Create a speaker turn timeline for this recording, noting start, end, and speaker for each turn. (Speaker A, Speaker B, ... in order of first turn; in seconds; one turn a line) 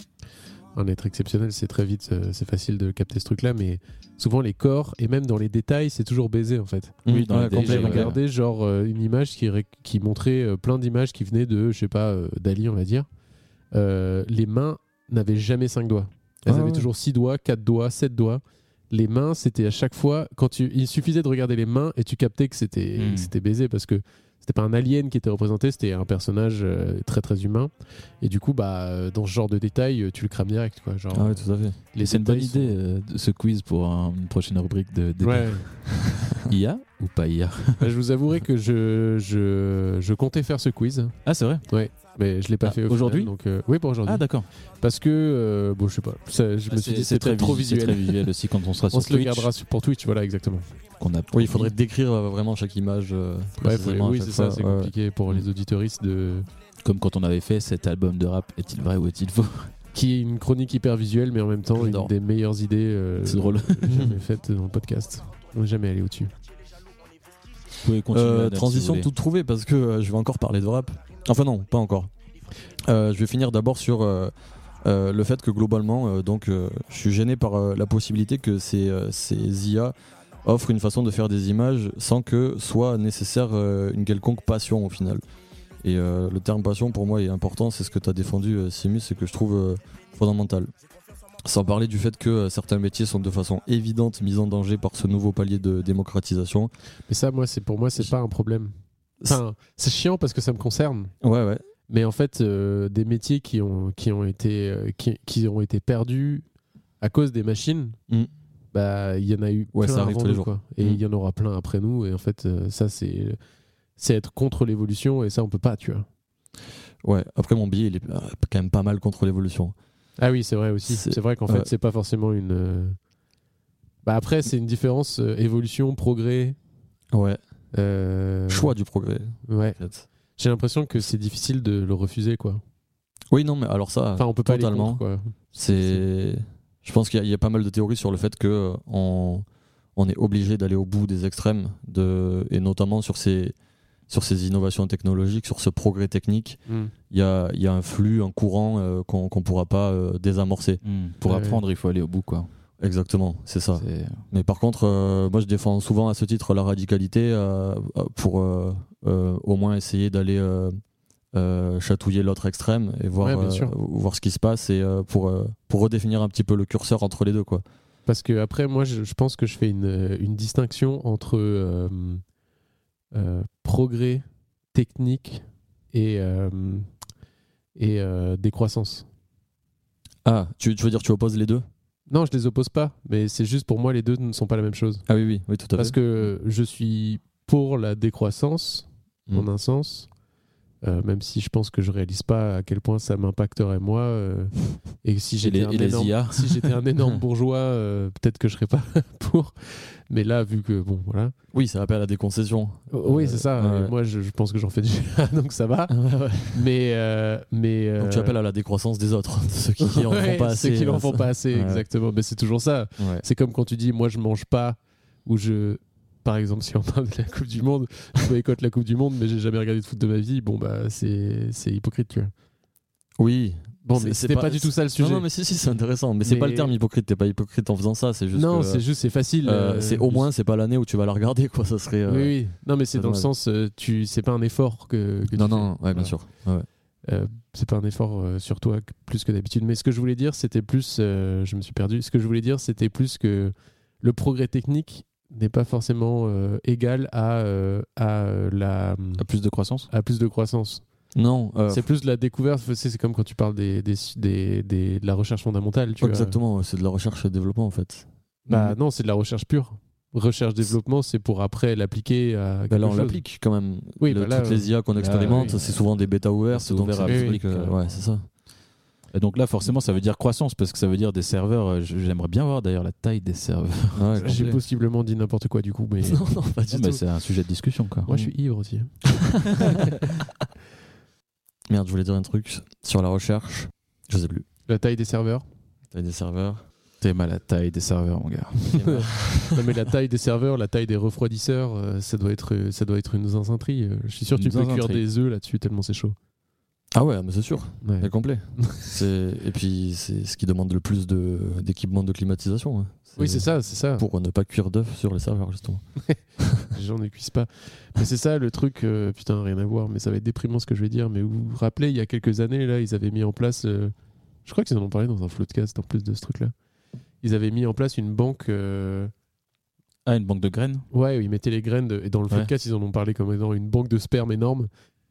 Speaker A: 0.7-13.1
Speaker B: 7.0-8.1
Speaker C: 7.1-8.2
Speaker A: 13.7-32.7
Speaker B: 16.4-16.9
Speaker C: 23.0-23.3
Speaker B: 31.1-31.8
Speaker C: 32.0-37.9
Speaker A: 35.2-35.6
Speaker A: 37.8-41.1
Speaker C: 41.2-41.7
Speaker A: 41.7-44.3
Speaker C: 42.6-43.3
Speaker C: 44.0-44.5
Speaker A: 44.8-48.3
Speaker C: 46.7-49.5
Speaker A: 48.9-50.7
Speaker C: 51.0-51.7
Speaker B: 51.3-54.9
Speaker A: 53.6-56.5
Speaker C: 56.8-59.7
Speaker A: 59.9-66.3
Speaker B: 61.7-62.1
Speaker C: 63.2-63.9
Speaker B: 63.9-64.2
Speaker C: 67.8-69.1
Speaker B: 68.1-72.1
Speaker B: 72.8-85.2
Speaker B: 85.8-90.7
Speaker B: 91.4-96.7
Speaker A: 97.1-101.1
Speaker B: 101.2-101.6
Speaker A: 101.9-106.4
Speaker A: 107.0-108.0
Speaker A: 108.7-113.4
Speaker B: 109.7-111.0
Speaker A: 114.0-116.1
Speaker B: 117.0-119.7
Speaker A: 120.2-123.0
Speaker B: 120.8-121.7
Speaker A: 124.0-126.6
Speaker B: 127.1-127.4
Speaker A: 127.7-128.7
Speaker B: 128.5-130.1
Speaker A: 129.5-129.8
Speaker A: 130.3-132.6
Speaker B: 133.3-135.0
Speaker A: 134.2-136.0
Speaker B: 135.5-139.4
Speaker B: 139.9-143.6
Speaker B: 144.1-146.6
Speaker A: 146.7-146.9
Speaker B: 147.1-150.8
Speaker C: 150.8-152.5
Speaker A: 151.3-151.6
Speaker B: 152.8-160.8
Speaker C: 153.8-154.2
Speaker B: 161.3-167.6
Speaker A: 163.2-163.7
Speaker A: 168.1-172.2
Speaker A: 173.1-176.9
Speaker A: 177.8-179.1
Speaker B: 180.2-181.7
Speaker A: 182.1-185.0
Speaker B: 185.1-186.0
Speaker A: 185.8-190.1
Speaker A: 190.8-201.3
Speaker C: 195.4-196.8
Speaker B: 201.5-203.9
Speaker A: 202.9-205.9
Speaker B: 205.9-206.7
Speaker A: 206.5-208.4
Speaker B: 208.0-211.8
Speaker A: 209.8-222.3
Speaker B: 213.0-213.2
Speaker B: 223.2-228.8
Speaker A: 223.8-225.3
Speaker A: 226.2-226.7
Speaker A: 228.3-230.3
Speaker B: 229.4-232.3
Speaker A: 232.1-236.2
Speaker B: 232.9-233.3
Speaker B: 235.3-236.7
Speaker A: 237.1-249.2
Speaker C: 249.2-249.9
Speaker A: 249.9-250.8
Speaker B: 251.1-251.8
Speaker A: 251.7-256.4
Speaker B: 256.0-258.7
Speaker A: 258.5-263.2
Speaker B: 262.7-268.2
Speaker A: 264.0-265.5
Speaker C: 264.9-265.8
Speaker C: 266.5-267.8
Speaker A: 267.1-267.4
Speaker C: 269.1-274.6
Speaker B: 273.9-274.6
Speaker A: 274.2-276.2
Speaker B: 276.0-277.0
Speaker C: 276.7-278.1
Speaker A: 278.1-278.9
Speaker B: 281.7-284.4
Speaker A: 284.7-285.4
Speaker B: 285.9-286.6
Speaker C: 287.0-288.9
Speaker B: 288.7-289.5
Speaker A: 288.8-296.1
Speaker C: 294.4-295.0
Speaker B: 296.9-306.6
Speaker A: 297.8-298.8
Speaker A: 303.1-304.0
Speaker A: 306.1-313.9
Speaker A: 314.4-316.5
Speaker A: 317.2-319.1
Speaker C: 320.1-320.9
Speaker A: 320.9-324.7